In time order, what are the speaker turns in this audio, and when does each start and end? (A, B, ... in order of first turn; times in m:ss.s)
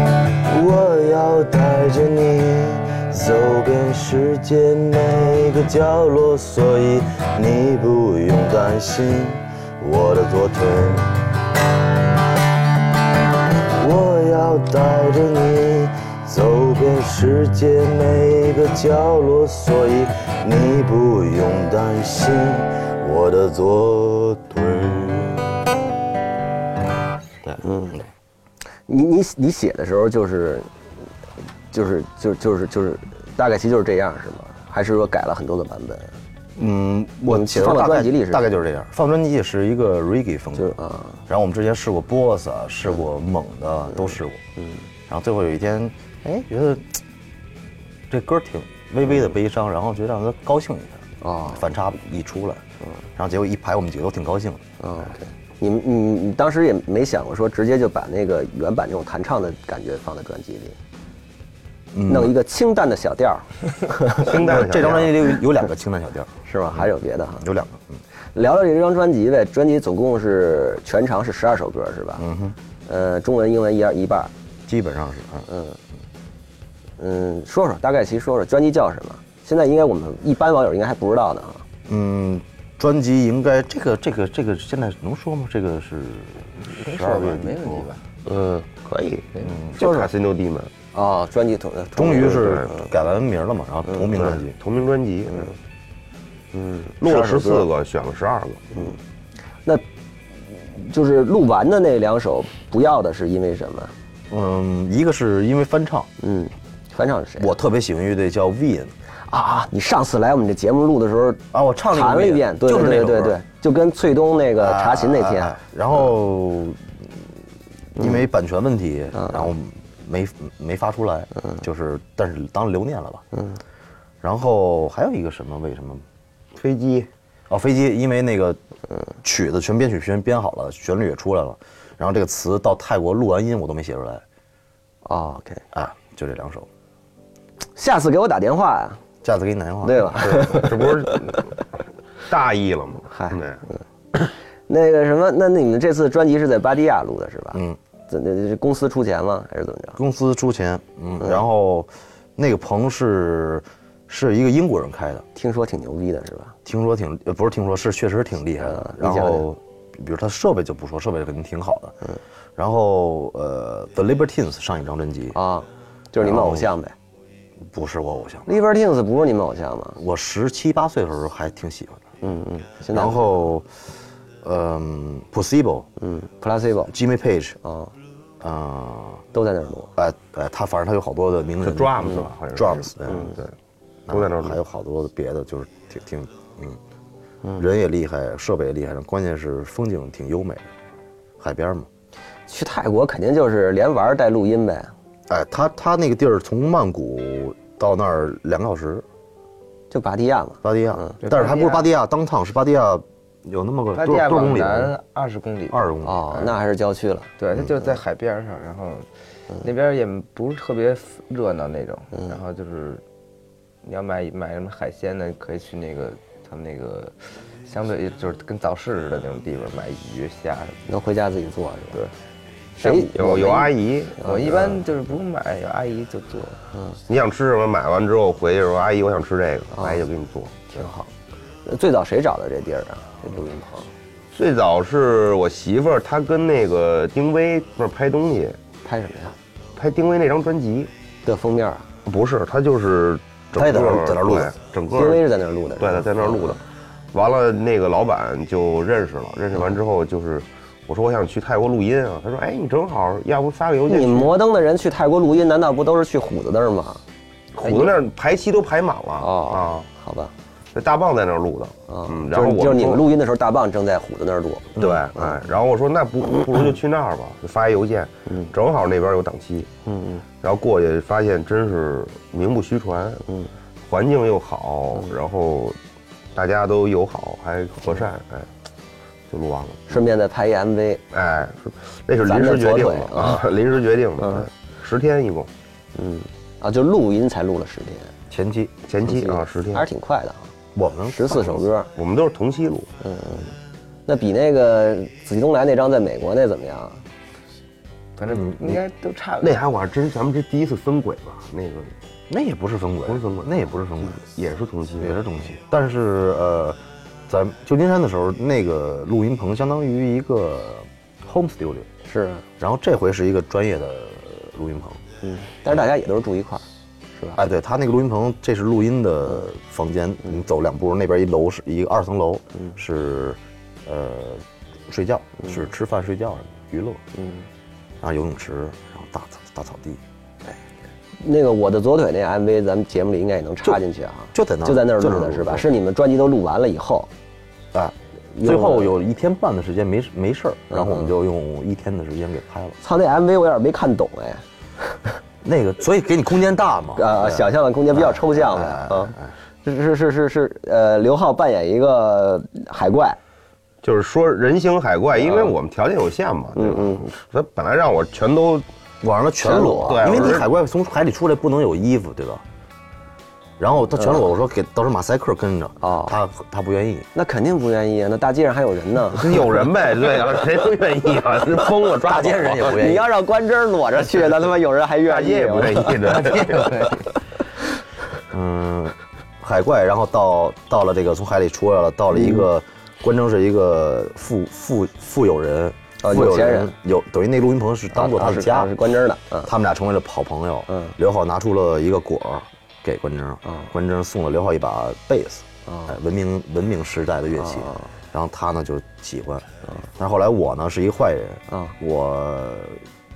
0:00.3-0:11.2 A
0:13.7-0:25.7 A
0:27.6-0:28.0 B
0:28.9-0:30.7 B
0:31.7-0:36.1 B
0:36.6-0:44.4 A
0:37.3-0:38.4 B
0:40.6-0:41.2 B
0:45.1-0:47.0 A
0:48.1-0:52.6 A
0:51.2-0:51.6 B
0:53.2-0:54.6 A
0:54.8-1:00.8 B
1:01.9-1:02.3 A
1:02.0-1:04.4 B
1:04.2-1:05.2 C
1:04.4-1:06.9 A
1:06.4-1:07.4 B
1:07.4-1:08.0 A
1:08.3-1:12.2 B
1:12.2-1:12.6 A
1:12.8-1:14.3 B
1:14.7-1:15.5 A
1:15.5-1:15.8 B
1:17.0-1:21.6 B
1:21.9-1:27.9 A
1:26.6-1:28.0 D
1:28.2-1:30.7 C
1:29.4-1:30.1 A
1:30.9-1:32.5 B
1:31.9-1:34.5 A
1:32.2-1:32.7 C
1:34.1-1:35.6 C
1:36.5-1:37.6 B
1:37.0-1:38.7 C
1:40.5-1:43.9 B
1:44.3-1:46.1 A
1:46.2-1:47.5 B
1:47.4-1:48.9 A
1:49.3-1:55.5 B
1:51.5-1:53.4 A
1:54.6-1:57.1 A
1:58.0-2:03.2 A
1:59.1-1:59.5 B
2:03.3-2:03.6 B
2:04.2-2:06.0 A
2:06.5-2:07.1 C
2:07.5-2:08.6 A
2:09.2-2:14.2 A
2:15.0-2:15.6 B
2:15.7-2:16.7 A
2:17.8-2:19.0 B
2:19.2-2:20.3 A
2:19.8-2:21.0 B
2:20.3-2:21.5 C
2:22.3-2:23.6 C
2:23.1-2:23.8 B
2:24.7-2:30.0 B
2:30.0-2:35.2 A
2:35.3-2:36.6 B
2:36.6-2:41.9 A
2:38.6-2:39.5 B
2:42.6-2:45.4 A
2:45.3-2:46.9 B
2:46.2-2:46.8 A
2:47.7-2:48.5 A
2:48.5-2:50.0 B
2:50.0-2:52.0 A
2:52.2-2:53.2 B
2:52.9-2:53.8 A
2:54.4-2:55.9 A
2:56.0-2:56.9 B
2:56.9-2:57.6 A
2:57.6-2:57.9 B
2:58.4-2:59.2 A
2:59.3-2:59.9 B
3:00.0-3:03.3 A
3:01.6-3:03.5 C
3:04.1-3:06.8 A
3:04.1-3:04.6 C
3:07.6-3:10.7 A
3:11.4-3:11.9 A
3:12.5-3:14.9 B
3:15.3-3:19.0 A
3:19.9-3:21.2 B
3:20.6-3:24.9 A
3:21.2-3:21.8 D
3:23.9-3:26.5 D
3:25.7-3:26.2 A
3:26.0-3:27.3 B
3:27.4-3:29.1 D
3:29.6-3:33.0 D
3:33.8-3:37.1 D
3:37.6-3:40.8 D
3:40.9-3:42.0 B
3:42.8-3:43.7 B
3:42.8-3:44.8 C
3:44.2-3:46.6 D
3:47.1-3:50.9 C
3:49.7-3:50.0 B
3:50.7-3:51.1 B
3:51.6-3:53.9 B
3:54.3-3:58.6 C
3:58.8-3:59.3 B
3:59.8-4:00.9 C
4:01.2-4:01.9 B
4:02.0-4:06.6 C
4:03.5-4:04.5 A
4:04.9-4:06.6 B
4:07.1-4:14.4 C
4:13.9-4:17.0 B
4:17.5-4:19.9 C
4:17.6-4:17.9 B
4:19.2-4:20.3 B
4:20.7-4:23.1 C
4:21.9-4:25.3 B
4:24.8-4:29.7 C
4:24.8-4:25.0 A
4:29.9-4:30.2 B
4:30.4-4:33.2 C
4:33.8-4:35.8 C
4:36.3-4:38.5 C
4:39.3-4:40.0 C
4:39.9-4:41.0 B
4:41.1-4:45.5 C
4:42.2-4:43.4 B
4:44.2-4:44.5 B
4:46.0-4:48.1 B
4:48.3-4:48.7 A
4:48.9-4:49.8 C
4:49.0-4:50.5 B
4:50.7-4:51.6 A
4:51.1-4:51.9 B
4:51.9-4:52.9 C
4:53.0-4:53.5 B
4:54.1-4:57.0 B
4:58.2-4:59.6 D
4:58.2-4:58.8 A
4:59.4-5:01.9 C
5:02.3-5:04.2 A
5:03.0-5:03.5 C
5:04.0-5:05.2 C
5:05.0-5:11.9 A
5:12.1-5:12.4 B
5:12.6-5:15.0 A
5:15.2-5:16.6 B
5:17.4-5:27.0 A
5:27.2-5:27.4 B
5:28.0-5:30.0 A
5:31.2-5:37.1 B
5:34.3-5:35.7 A
5:37.7-5:42.8 A
5:38.3-5:38.9 B
5:40.7-5:41.1 B
5:42.8-5:45.0 B
5:45.4-5:49.3 A
5:47.0-5:53.2 B
5:53.8-5:58.6 C
5:55.2-5:55.5 B
5:56.6-5:57.0 B
5:59.0-6:02.4 A
5:59.4-6:00.3 B
5:59.6-6:00.5 C
6:03.6-6:07.1 A
6:04.0-6:04.2 B
6:05.8-6:06.1 B
6:07.1-6:09.3 B
6:09.1-6:12.8 C
6:12.0-6:13.1 A
6:12.6-6:16.0 B
6:15.0-6:16.9 C
6:16.0-6:17.1 D
6:18.3-6:28.7 A
6:22.2-6:22.4 B
6:26.0-6:26.7 B
6:27.9-6:29.5 B
6:29.4-6:42.8 A
6:30.7-6:30.9 B
6:33.4-6:33.7 B
6:35.7-6:35.9 B
6:37.4-6:37.9 B